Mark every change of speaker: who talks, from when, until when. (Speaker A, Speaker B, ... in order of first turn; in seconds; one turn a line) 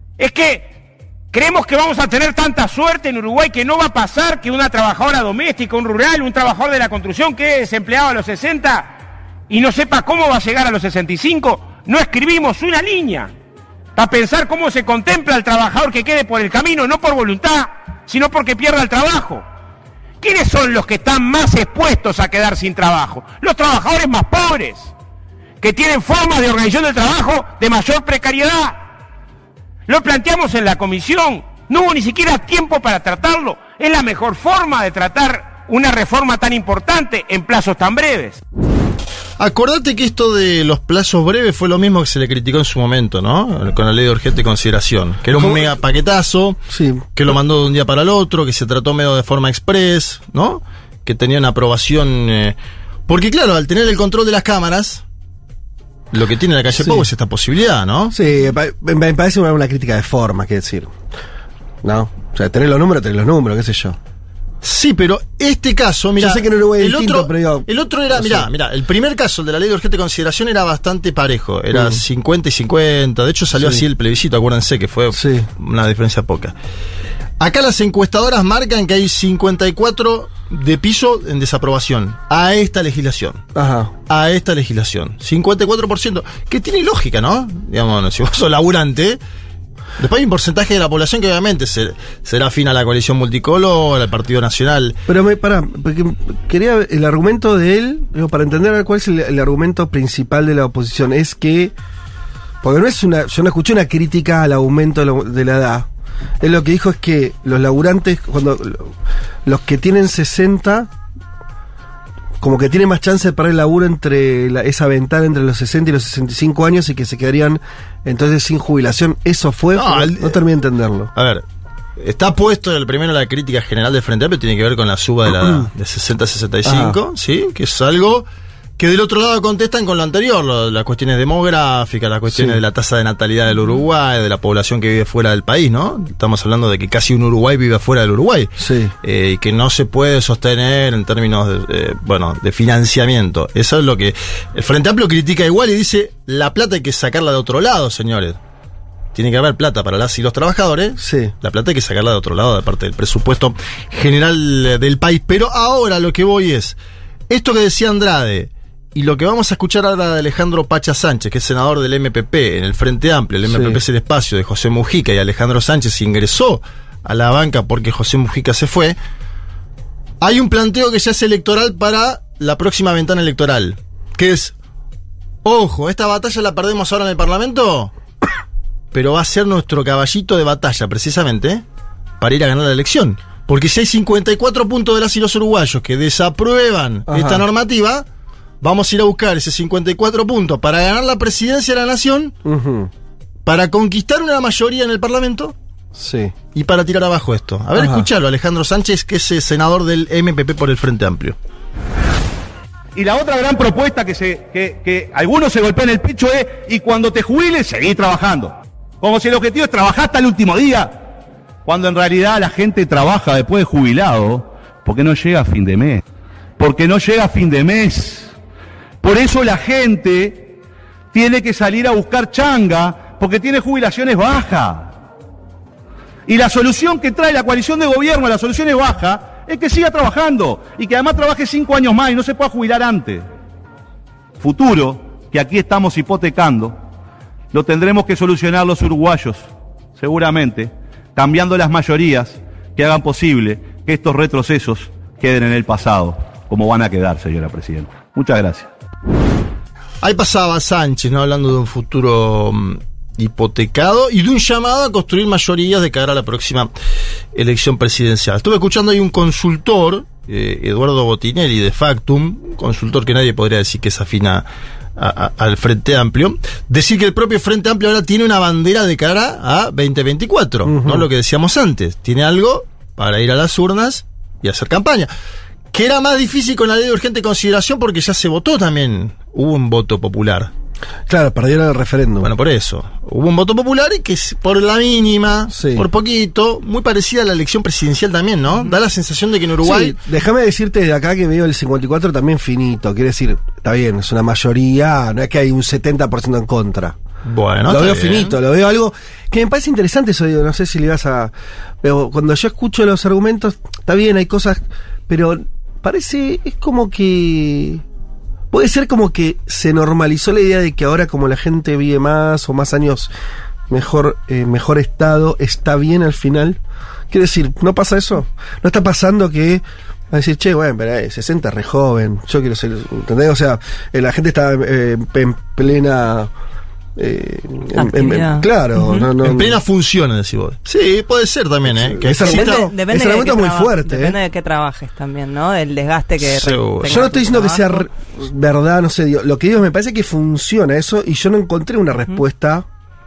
Speaker A: 0.2-0.8
Speaker A: 1.3-8.9
Speaker A: 9.5-13.3
Speaker A: 14.0-19.4
Speaker A: 20.2-24.9
Speaker A: 25.6-28.8
Speaker A: 29.9-38.4
Speaker B: 39.4-46.6
Speaker C: 45.4-45.6
Speaker C: 46.7-47.1
Speaker B: 47.2-52.6
Speaker B: 53.1-55.0
Speaker B: 56.1-58.1
Speaker C: 56.8-57.1
Speaker C: 58.1-60.9
Speaker C: 61.8-64.0
Speaker B: 64.6-76.5
Speaker C: 66.2-68.5
Speaker C: 71.7-72.0
Speaker C: 73.5-73.8
Speaker C: 75.1-75.5
Speaker B: 77.4-83.4
Speaker C: 83.5-83.9
Speaker B: 84.1-89.2
Speaker B: 90.0-95.0
Speaker C: 95.1-101.7
Speaker C: 102.6-105.9
Speaker C: 106.4-108.9
Speaker C: 109.5-110.9
Speaker C: 112.4-121.1
Speaker B: 119.7-120.4
Speaker B: 121.1-121.4
Speaker B: 122.0-128.3
Speaker C: 126.7-127.0
Speaker B: 128.8-148.4
Speaker C: 132.3-132.6
Speaker C: 138.6-138.9
Speaker B: 149.1-156.8
Speaker C: 151.0-151.3
Speaker B: 157.3-169.0
Speaker C: 163.5-163.8
Speaker B: 170.2-174.5
Speaker B: 175.4-177.9
Speaker B: 178.9-181.6
Speaker B: 182.2-188.1
Speaker C: 187.1-187.4
Speaker B: 188.6-192.3
Speaker C: 192.4-192.9
Speaker B: 193.4-195.6
Speaker C: 195.9-196.3
Speaker B: 196.5-201.4
Speaker C: 197.8-198.1
Speaker D: 202.9-211.0
Speaker D: 211.7-216.0
Speaker D: 216.6-218.3
Speaker D: 219.0-220.5
Speaker D: 221.1-224.9
Speaker D: 226.3-233.3
Speaker D: 234.4-236.8
Speaker D: 237.5-248.7
Speaker B: 250.0-256.7
Speaker B: 257.3-275.1
Speaker C: 270.6-271.1
Speaker B: 275.7-280.5
Speaker C: 281.1-282.3
Speaker B: 282.2-290.0
Speaker C: 285.5-285.9
Speaker C: 289.6-297.0
Speaker B: 297.2-298.4
Speaker C: 297.7-307.8
Speaker C: 308.5-313.1
Speaker C: 313.7-316.6
Speaker C: 317.1-326.3
Speaker C: 327.0-329.6
Speaker E: 327.8-329.1
Speaker B: 329.2-332.7
Speaker C: 331.7-334.2
Speaker E: 332.2-337.9
Speaker B: 336.2-337.1
Speaker C: 336.9-342.6